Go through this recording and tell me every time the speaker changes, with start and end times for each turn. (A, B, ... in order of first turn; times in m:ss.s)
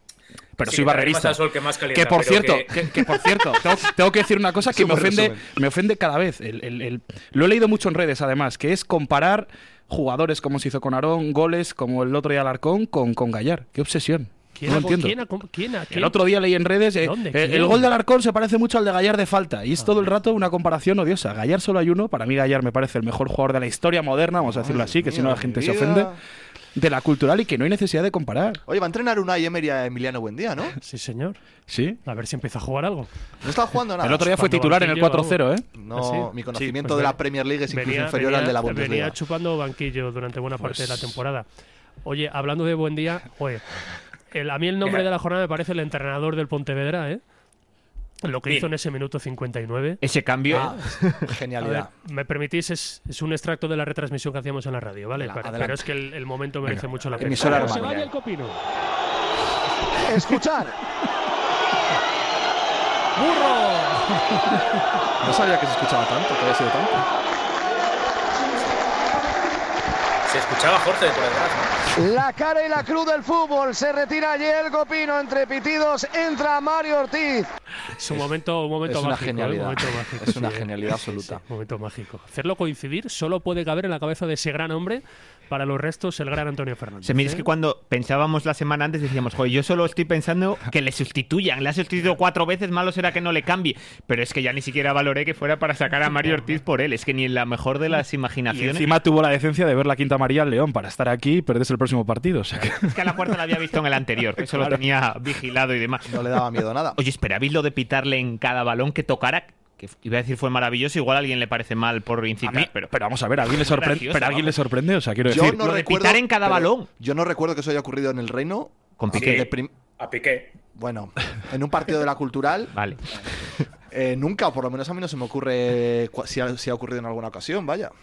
0:00.6-0:15.2 A
0:00.6-0:03.5 B
0:04.7-0:05.4 C
0:14.6-0:16.2 D
0:15.9-0:26.1 A
0:17.0-0:17.9 D
0:24.4-0:26.2 C
0:26.8-0:28.6 A
0:28.7-0:30.8 C
0:30.8-0:31.4 D
0:31.7-0:32.0 A
0:32.0-0:33.1 D
0:33.4-0:34.3 C
0:34.0-0:35.7 A
0:34.2-0:35.4 D
0:35.7-0:39.2 C
0:35.9-0:36.3 D
0:36.8-0:37.1 D
0:37.7-0:41.5 D
0:40.6-0:41.2 A
0:42.0-0:43.7 D
0:44.3-0:47.2 D
0:48.2-0:50.0 D
0:50.0-0:51.2 E
0:50.5-0:51.9 C
0:51.6-0:58.6 D
0:55.2-0:55.9 C
0:57.2-0:58.1 C
0:57.4-0:57.8 B
1:00.0-1:00.8 F
1:03.2-1:04.2 D
1:05.2-1:07.0 C
1:10.3-1:11.8 B
1:12.0-1:17.5 F
1:18.0-1:27.5 D
1:18.8-1:21.4 C
1:27.0-1:38.9 E
1:38.5-1:43.0 A
1:42.6-1:46.1 E
1:44.5-1:44.8 A
1:46.1-1:47.0 C
1:47.0-1:52.9 E
1:52.4-1:55.6 A
1:53.4-1:54.6 E
1:55.3-1:59.7 C
1:55.5-1:56.9 E
1:59.0-1:59.5 E
1:59.1-2:00.6 B
2:00.8-2:02.7 C
2:02.8-2:03.0 E
2:03.9-2:07.9 C